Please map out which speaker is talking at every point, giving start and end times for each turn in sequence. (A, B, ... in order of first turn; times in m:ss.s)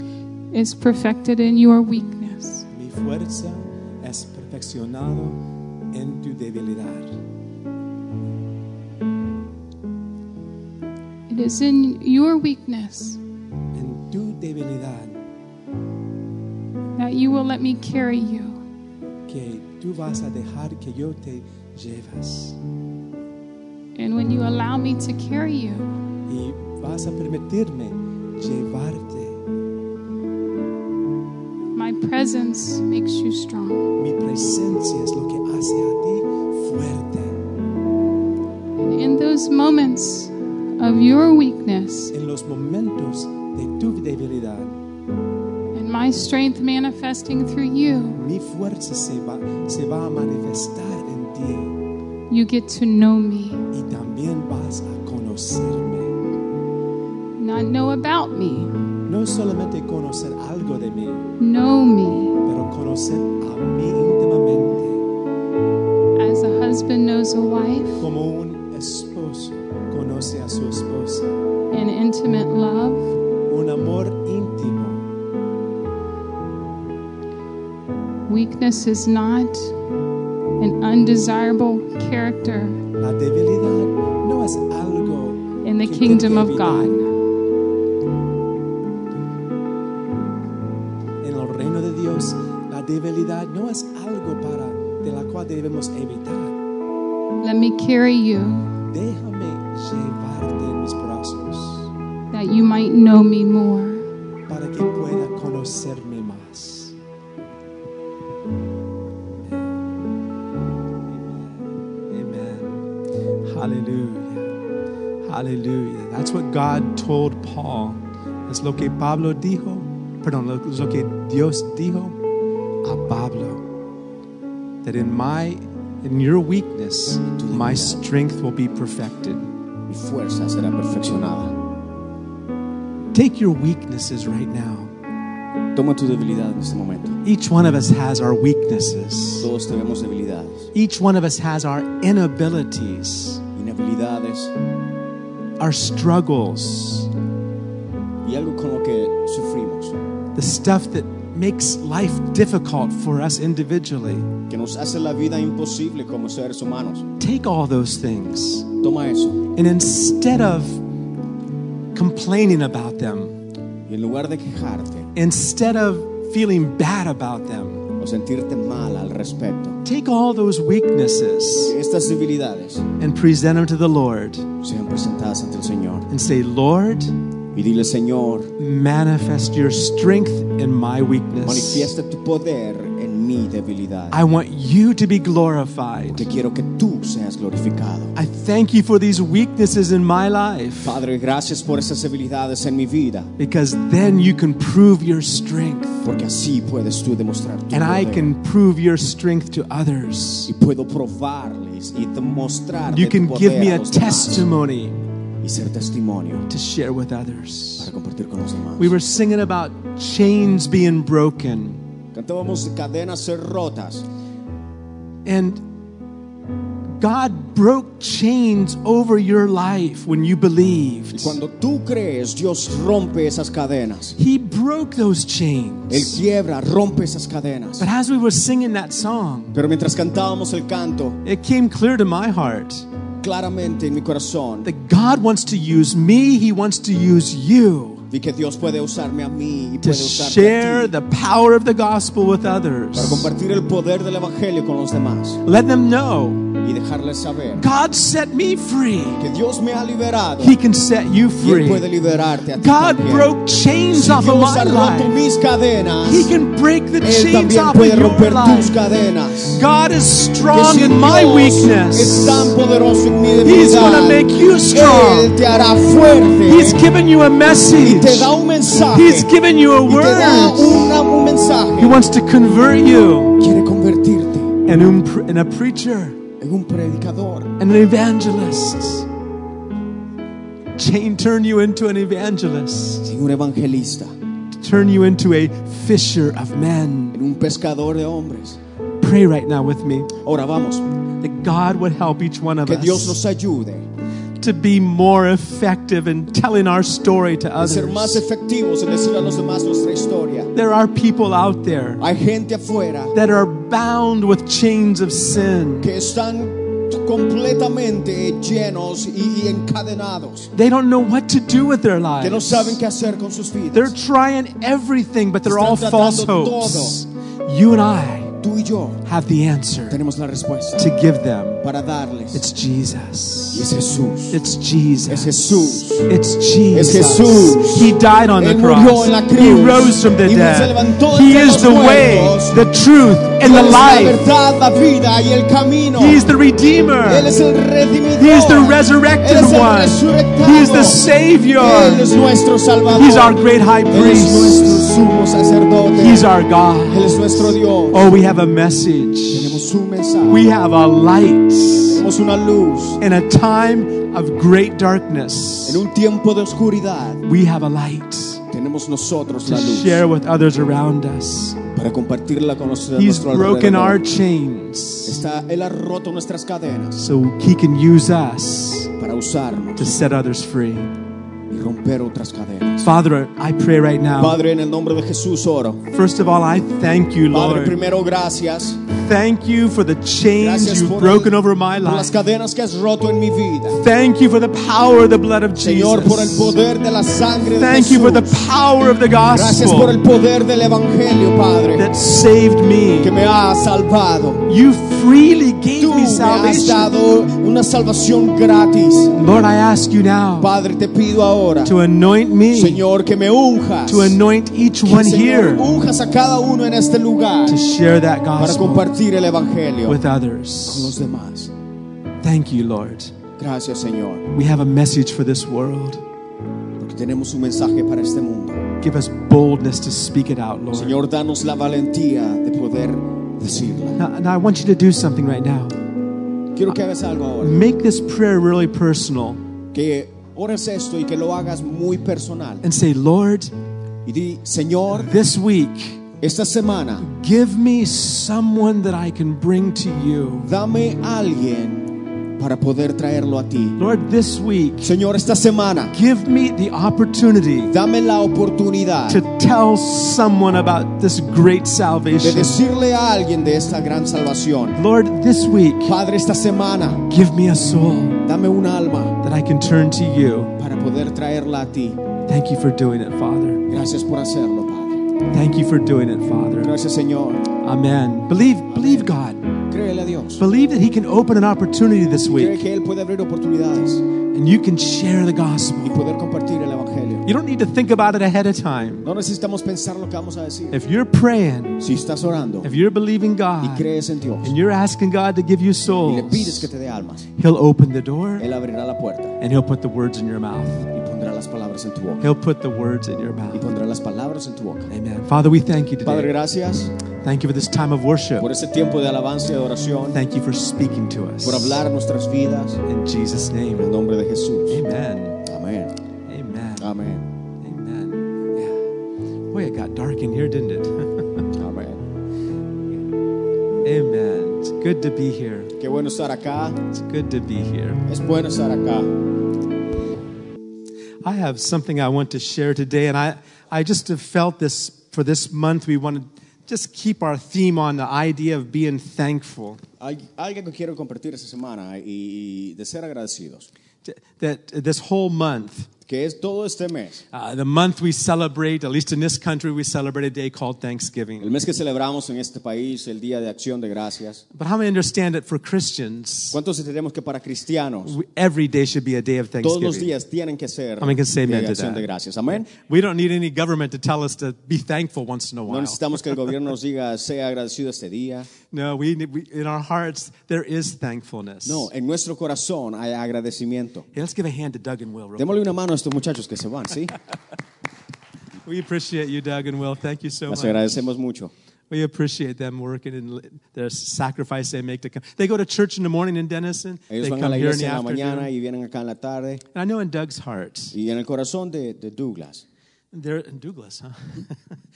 0:00.5-0:02.6 A
0:02.7-0:05.4 B
0:05.9-0:07.2 B
0:11.3-0:13.2 A
0:13.7-0:15.2 B
0:17.0-0:18.6 A
0:19.3-0:22.6 B
0:23.9-0:26.0 A
0:26.3-0:29.4 B
0:31.7-0:33.9 A
0:34.0-0:37.4 B
0:38.8-0:42.1 A
0:42.1-0:44.8 B
0:45.7-0:48.2 A
0:48.1-0:51.8 B
0:52.3-0:53.6 A
0:53.7-0:56.2 B
0:57.4-0:58.8 A
0:59.1-1:01.3 B
1:01.4-1:02.4 A
1:02.4-1:05.0 B
1:06.2-1:08.0 A
1:08.0-1:11.3 B
1:11.7-1:13.1 A
1:13.5-1:15.0 B
1:18.3-1:19.7 A
1:20.6-1:22.8 A
1:23.0-1:27.0 B
1:25.6-1:27.1 A
1:31.2-1:36.6 B
1:37.4-1:38.7 A
1:38.9-1:41.9 B
1:42.3-1:44.1 A
1:44.5-1:46.9 B
1:49.4-1:49.7 B
1:51.1-1:52.9 B
1:53.4-1:54.5 B
1:55.2-2:02.2 B
2:02.8-2:03.6 B
2:04.8-2:09.5 B
2:07.4-2:08.0 C
2:09.9-2:11.5 C
2:13.1-2:14.9 B
2:15.7-2:17.2 C
2:17.2-2:19.5 B
2:19.4-2:20.7 C
2:20.7-2:23.4 B
2:23.5-2:24.5 C
2:25.6-2:27.1 B
2:28.2-2:29.9 C
2:30.3-2:34.3 B
2:34.5-2:37.1 C
2:37.2-2:38.7 B
2:38.8-2:39.5 C
2:39.5-2:40.8 B
2:41.9-2:43.4 B
2:43.8-2:45.1 C
2:45.1-2:47.8 B
2:48.0-2:49.8 C
2:49.8-2:51.7 B
2:51.6-2:52.8 C
2:53.0-2:54.5 B
2:54.6-2:56.1 C
2:56.1-2:57.2 B
2:57.5-2:58.5 C
2:58.6-3:01.9 B
3:01.4-3:04.2 C
3:04.1-3:06.3 B
3:06.1-3:08.1 C
3:08.1-3:11.0 B
3:10.8-3:13.3 C
3:13.4-3:16.0 B
3:16.0-3:18.3 C
3:17.7-3:20.5 B
3:20.4-3:24.4 C
3:22.9-3:25.0 B
3:25.4-3:26.4 C
3:26.5-3:27.9 B
3:27.8-3:28.9 C
3:28.8-3:31.8 B
3:32.1-3:34.0 C
3:35.2-3:35.6 B
3:37.0-3:41.4 B
3:41.1-3:44.2 C
3:44.2-3:46.2 B
3:45.9-3:47.9 C
3:47.8-3:49.6 B
3:49.5-3:51.2 C
3:51.2-3:52.9 B
3:53.2-3:54.7 C
3:54.6-3:58.0 B
3:58.1-4:00.9 C
3:59.8-4:03.3 B
4:02.9-4:05.4 C
4:05.4-4:06.5 B
4:06.6-4:07.6 C
4:07.6-4:09.2 B
4:09.2-4:10.6 C
4:10.4-4:11.9 B
4:11.4-4:13.3 C
4:12.6-4:15.1 B
4:13.9-4:16.3 C
4:16.0-4:18.8 B
4:17.0-4:19.6 C
4:19.5-4:22.5 B
4:20.5-4:26.9 C
4:23.4-4:25.3 B
4:26.4-4:28.3 B
4:27.8-4:29.3 C
4:28.9-4:31.0 B
4:29.8-4:32.0 C
4:31.8-4:33.4 B
4:33.4-4:34.6 C
4:34.6-4:36.2 B
4:36.4-4:37.5 C
4:37.6-4:39.1 B
4:40.8-4:43.1 B
4:43.1-4:44.1 C
4:44.5-4:47.2 B
4:47.1-4:48.6 C
4:49.0-4:50.1 B
4:50.2-4:50.8 C
4:51.2-4:53.2 B
4:52.6-4:53.8 C
4:54.4-4:58.2 B
4:57.6-5:00.5 C
5:00.5-5:02.0 B
5:02.0-5:03.1 C
5:03.1-5:05.9 B
5:05.8-5:10.5 C
5:10.5-5:12.8 B
5:12.2-5:13.9 C
5:13.7-5:18.4 B
5:15.4-5:17.0 C
5:18.4-5:19.0 C
5:19.0-5:20.0 B
5:19.9-5:20.9 C
5:20.8-5:21.6 B
5:21.6-5:22.4 C
5:22.3-5:23.7 B
5:23.5-5:24.4 C
5:24.3-5:34.2 B
5:25.1-5:26.1 C
5:26.7-5:32.6 C
5:33.4-5:36.2 C
5:36.0-5:37.3 B
5:37.0-5:46.3 C
5:38.2-5:42.1 B
5:42.9-5:44.8 B
5:45.9-5:49.6 B
5:46.8-5:48.0 C
5:49.3-5:50.5 C
5:50.3-5:52.0 B
5:51.9-5:53.0 C
5:53.0-5:55.8 B
5:55.6-5:57.2 C
5:57.2-5:58.4 B
5:58.5-6:00.0 C
5:59.4-6:01.6 B
6:01.7-6:04.0 C
6:02.9-6:05.2 B
6:05.0-6:07.0 C
6:07.0-6:08.9 B
6:09.0-6:09.9 C
6:09.8-6:10.9 B
6:11.5-6:12.9 C
6:12.8-6:14.4 B
6:14.2-6:15.8 C
6:15.9-6:17.8 B
6:17.3-6:18.8 C
6:18.9-6:22.1 B
6:20.4-6:23.8 C
6:23.7-6:26.6 B
6:25.6-6:28.4 C
6:27.6-6:30.0 B
6:29.3-6:31.9 C
6:31.7-6:33.1 B
6:33.0-6:34.5 C
6:34.5-6:36.9 B
6:35.8-6:39.2 C
6:39.1-6:40.5 B
6:40.4-6:41.7 C
6:41.6-6:42.8 B
6:42.5-6:44.2 C
6:43.9-6:45.7 B
6:44.8-6:47.6 C
6:47.5-6:48.9 B
6:48.4-6:50.0 C
6:49.9-6:50.9 B
6:50.6-6:51.5 C
6:52.2-6:53.2 B
6:53.4-6:54.3 C
6:54.3-6:56.0 B
6:56.8-6:58.6 C
6:58.8-7:01.0 B
7:00.7-7:04.0 C
7:04.0-7:05.8 B
7:06.5-7:07.6 C
7:07.4-7:09.4 B
7:09.7-7:12.6 C
7:12.6-7:13.5 B
7:14.0-7:15.2 C
7:14.9-7:16.0 B
7:16.2-7:17.0 C
7:17.0-7:20.5 B
7:20.4-7:23.8 C
7:23.8-7:24.9 B
7:24.8-7:25.9 C
7:25.9-7:27.7 B
7:27.7-7:29.2 C
7:29.1-7:32.6 B
7:32.2-7:34.8 C
7:34.7-7:36.0 B
7:35.8-7:37.1 C
7:37.1-7:38.2 B
7:38.2-7:39.2 C
7:39.2-7:40.5 B
7:40.6-7:42.0 C
7:42.3-7:43.7 B
7:43.7-7:45.0 C
7:45.3-7:46.7 B
7:46.6-7:47.4 C
7:47.6-7:49.5 B
7:48.7-7:49.1 C
7:49.7-7:50.4 C
7:50.4-7:52.6 B
7:52.2-7:54.0 C
7:54.3-7:56.0 B
7:55.8-7:57.2 C
7:57.2-7:59.1 B
7:59.0-8:00.8 C
8:00.7-8:01.8 B
8:01.8-8:02.7 C
8:02.6-8:03.8 B
8:03.6-8:04.5 C
8:04.4-8:06.7 B
8:06.0-8:07.2 C
8:07.3-8:08.4 B
8:08.4-8:09.4 C
8:09.4-8:10.9 B
8:10.9-8:12.2 C
8:12.2-8:13.7 B
8:13.5-8:14.9 C
8:14.9-8:16.3 B
8:16.0-8:16.9 C
8:17.2-8:18.5 B
8:18.4-8:20.2 C
8:20.1-8:21.8 B
8:21.4-8:22.8 C
8:22.8-8:23.9 B
8:23.8-8:24.8 C
8:24.7-8:25.4 B
8:25.4-8:25.9 C
8:26.3-8:26.9 B
8:26.8-8:27.3 C
8:27.6-8:28.8 B
8:29.5-8:31.5 B
8:31.5-8:32.0 C
8:33.8-8:35.7 B
8:35.8-8:36.8 C
8:36.8-8:38.0 B
8:38.1-8:39.1 C
8:41.2-8:49.8 B
8:50.0-8:53.7 C
8:54.0-8:55.9 B
8:56.0-8:57.2 C
8:57.3-9:01.5 B
9:01.4-9:04.4 C
9:04.5-9:06.6 B
9:06.5-9:08.1 C
9:08.0-9:10.1 B
9:09.6-9:12.7 C
9:11.0-9:16.5 B
9:15.7-9:18.5 C
9:18.7-9:21.9 B
9:21.6-9:24.0 C
9:24.1-9:25.7 B
9:25.4-9:27.2 C
9:28.6-9:30.8 B
9:30.5-9:31.5 C
9:31.9-9:38.5 B
9:37.1-9:39.6 C
9:39.7-9:40.9 B
9:40.9-9:42.6 C
9:43.1-9:44.7 B